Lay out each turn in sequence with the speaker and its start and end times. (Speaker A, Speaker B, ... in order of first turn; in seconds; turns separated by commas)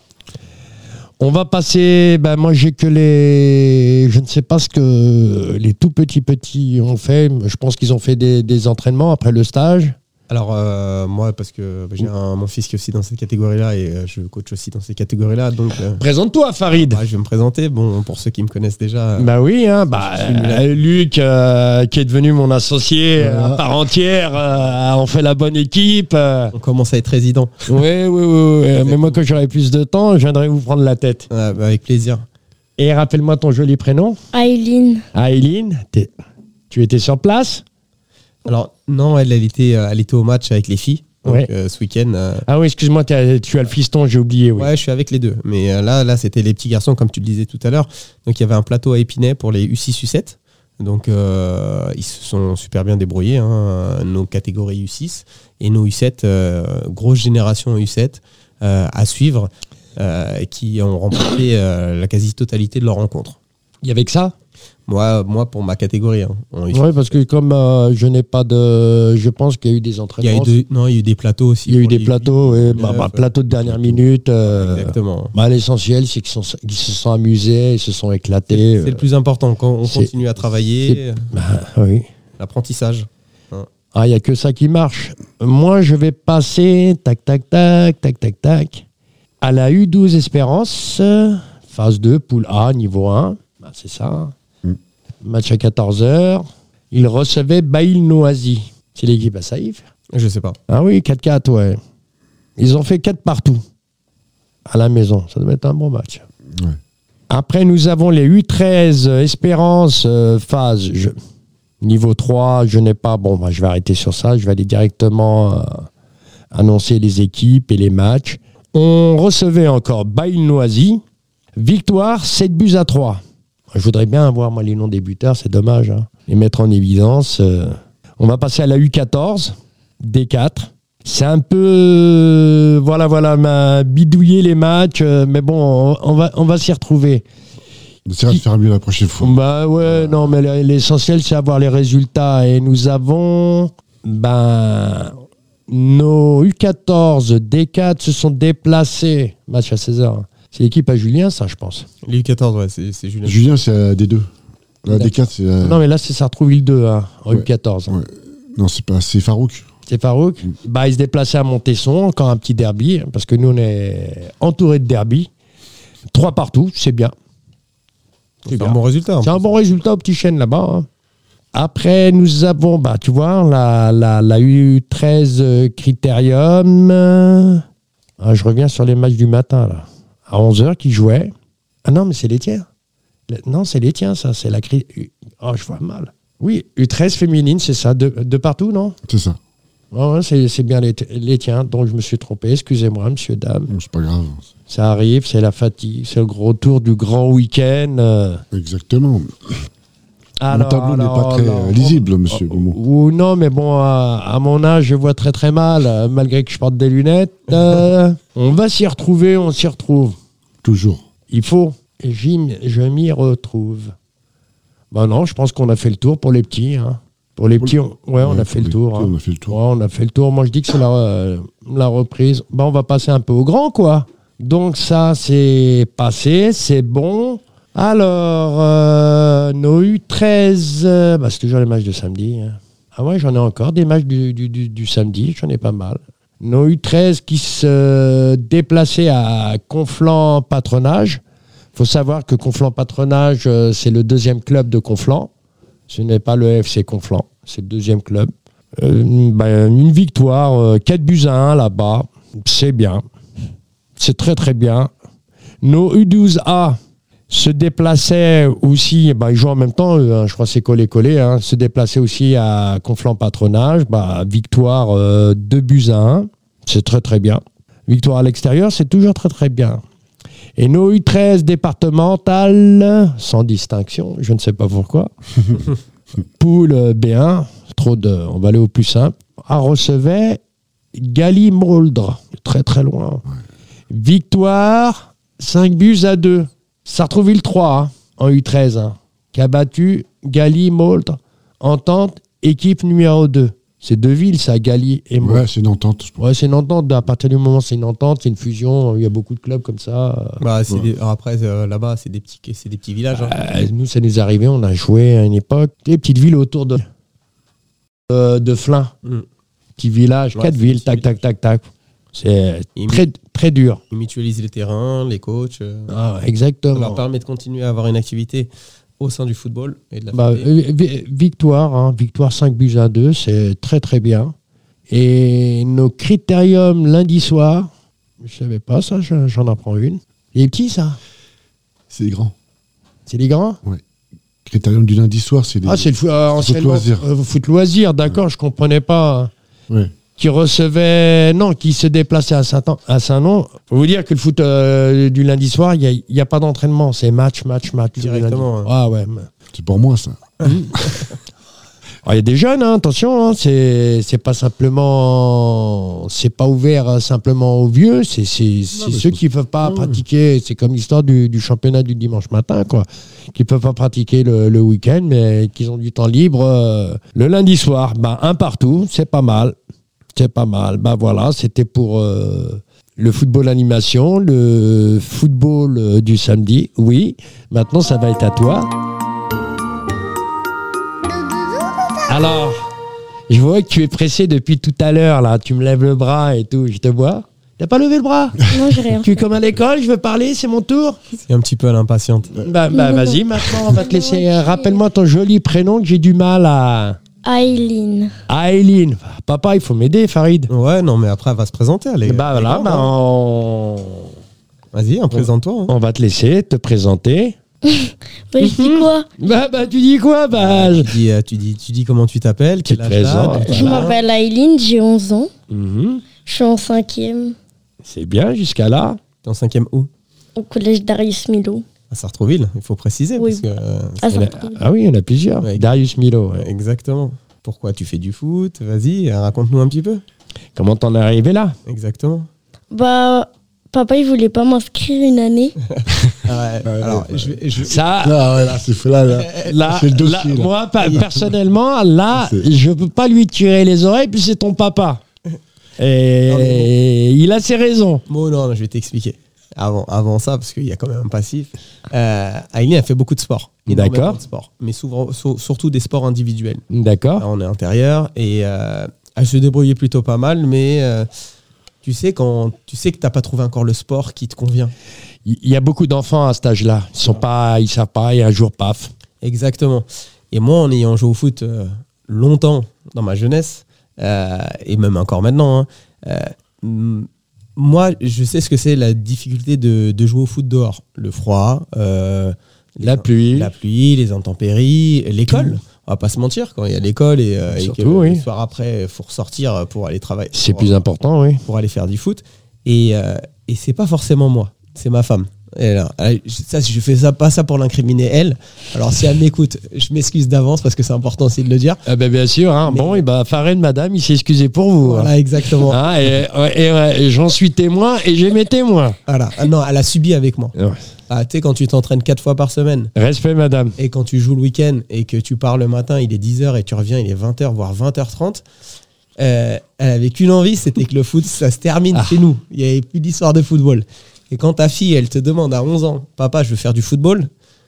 Speaker A: 1.2-9.9, Speaker B: 10.3-16.0, Speaker A: 16.0-17.0, Speaker B: 16.7-19.3, Speaker A: 19.2-26.5, Speaker B: 19.9-20.7, Speaker C: 23.2-23.6, Speaker B: 26.5-27.6, Speaker A: 27.7-31.3, Speaker B: 28.8-29.2, Speaker B: 31.3-32.2, Speaker A: 32.8-34.2, Speaker D: 34.3-35.0, Speaker A: 35.1-36.1, Speaker A: 36.7-37.6, Speaker B: 38.4-42.5, Speaker A: 42.5-44.7, Speaker B: 44.6-63.4, Speaker A: 63.8-64.3, Speaker B: 64.9-67.1, Speaker A: 66.7-70.5, Speaker B: 70.2-73.3, Speaker A: 71.7-79.0, Speaker C: 72.7-73.0, Speaker C: 73.5-74.0, Speaker B: 74.4-75.3, Speaker B: 78.5-81.3, Speaker A: 79.8-80.1, Speaker A: 80.9-82.1, Speaker B: 82.4-83.7, Speaker A: 83.9-88.8, Speaker A: 89.4-94.3, Speaker A: 95.2-99.8, Speaker B: 100.1-100.6, Speaker A: 100.7-101.8, Speaker A: 102.6-103.6, Speaker A: 104.7-106.2, Speaker A: 107.3-111.2, Speaker A: 111.8-115.9, Speaker A: 116.5-121.0, Speaker A: 121.5-123.2, Speaker A: 123.7-137.2, Speaker C: 138.1-140.3, Speaker A: 139.2-145.2, Speaker A: 145.7-151.8, Speaker B: 152.0-153.5, Speaker C: 153.2-154.3, Speaker C: 154.8-155.8, Speaker A: 154.9-157.9, Speaker C: 157.3-159.7, Speaker A: 159.9-165.3, Speaker A: 166.1-167.1, Speaker A: 168.4-170.9, Speaker B: 168.4-169.5, Speaker A: 171.5-177.6, Speaker A: 178.2-181.3, Speaker A: 181.8-182.7, Speaker A: 183.3-188.9, Speaker C: 189.1-189.4, Speaker A: 189.9-193.7, Speaker C: 193.7-194.5, Speaker A: 194.7-198.4, Speaker C: 198.5-199.5, Speaker A: 200.4-210.2, Speaker C: 200.5-202.8, Speaker C: 210.6-211.0, Speaker A: 211.3-213.9, Speaker A: 214.9-241.2, Speaker C: 217.6-219.6, Speaker A: 241.7-245.3, Speaker A: 245.9-253.0, Speaker A: 254.0-254.9, Speaker A: 255.6-256.8, Speaker A: 257.3-269.8, Speaker A: 270.6-275.1, Speaker A: 276.4-280.4, Speaker A: 280.9-283.2, Speaker A: 283.9-295.4, Speaker C: 295.2-296.2, Speaker A: 296.2-300.4, Speaker B: 300.4-303.4, Speaker A: 303.1-306.9, Speaker A: 308.1-308.9, Speaker A: 309.8-313.8, Speaker B: 310.3-311.1, Speaker B: 312.8-313.0, Speaker B: 313.9-315.9, Speaker A: 315.9-317.0, Speaker B: 316.7-320.5, Speaker A: 320.1-324.3, Speaker A: 324.9-327.7, Speaker A: 328.2-331.0, Speaker C: 331.9-332.3, Speaker A: 333.1-333.6, Speaker C: 334.4-337.1, Speaker A: 335.6-339.3, Speaker A: 340.1-349.3, Speaker B: 348.0-348.7, Speaker C: 349.5-350.9, Speaker B: 350.4-351.1, Speaker A: 350.4-350.7, Speaker A: 352.0-369.6, Speaker C: 358.7-360.0, Speaker A: 370.1-378.7, Speaker A: 382.1-382.7, Speaker A: 383.3-388.4, Speaker C: 388.4-388.7, Speaker D: 388.5-389.2, Speaker A: 388.9-391.0, Speaker B: 391.2-392.3, Speaker A: 392.4-397.0, Speaker D: 392.7-394.8, Speaker D: 397.2-398.1, Speaker A: 398.3-400.5, Speaker B: 400.5-402.9, Speaker A: 402.0-404.1, Speaker B: 404.7-405.7, Speaker A: 405.1-407.4, Speaker D: 407.6-409.1, Speaker A: 408.4-410.9, Speaker B: 410.3-414.0, Speaker A: 412.6-413.9, Speaker D: 413.5-415.3, Speaker A: 415.5-416.0, Speaker D: 416.2-417.4, Speaker A: 417.8-419.0, Speaker B: 419.2-419.9, Speaker D: 420.4-421.6, Speaker B: 421.9-424.3, Speaker D: 423.2-423.4, Speaker D: 424.0-424.6, Speaker A: 424.1-426.5, Speaker B: 426.4-430.0, Speaker A: 430.5-431.6, Speaker B: 431.6-432.3, Speaker D: 432.7-435.6, Speaker B: 435.7-437.8, Speaker C: 435.9-437.4, Speaker A: 437.6-438.2, Speaker C: 438.0-441.2, Speaker B: 439.1-439.5, Speaker A: 439.4-445.0, Speaker B: 440.8-441.1, Speaker C: 442.1-442.5, Speaker A: 445.8-448.0, Speaker B: 446.3-446.7, Speaker B: 448.1-456.6, Speaker A: 453.7-454.2, Speaker A: 456.7-457.2, Speaker B: 457.2-461.1, Speaker B: 461.8-464.7, Speaker A: 465.2-468.9, Speaker B: 469.2-490.8, Speaker A: 482.8-483.5, Speaker A: 485.3-485.6, Speaker A: 487.5-488.2, Speaker A: 490.3-491.4, Speaker B: 491.4-501.8, Speaker A: 501.9-505.1, Speaker B: 502.7-503.0, Speaker B: 504.8-505.8, Speaker A: 505.6-509.0, Speaker B: 509.1-510.5, Speaker B: 511.1-512.9, Speaker A: 512.9-513.7, Speaker B: 513.8-518.4, Speaker B: 519.2-527.3, Speaker A: 521.9-522.2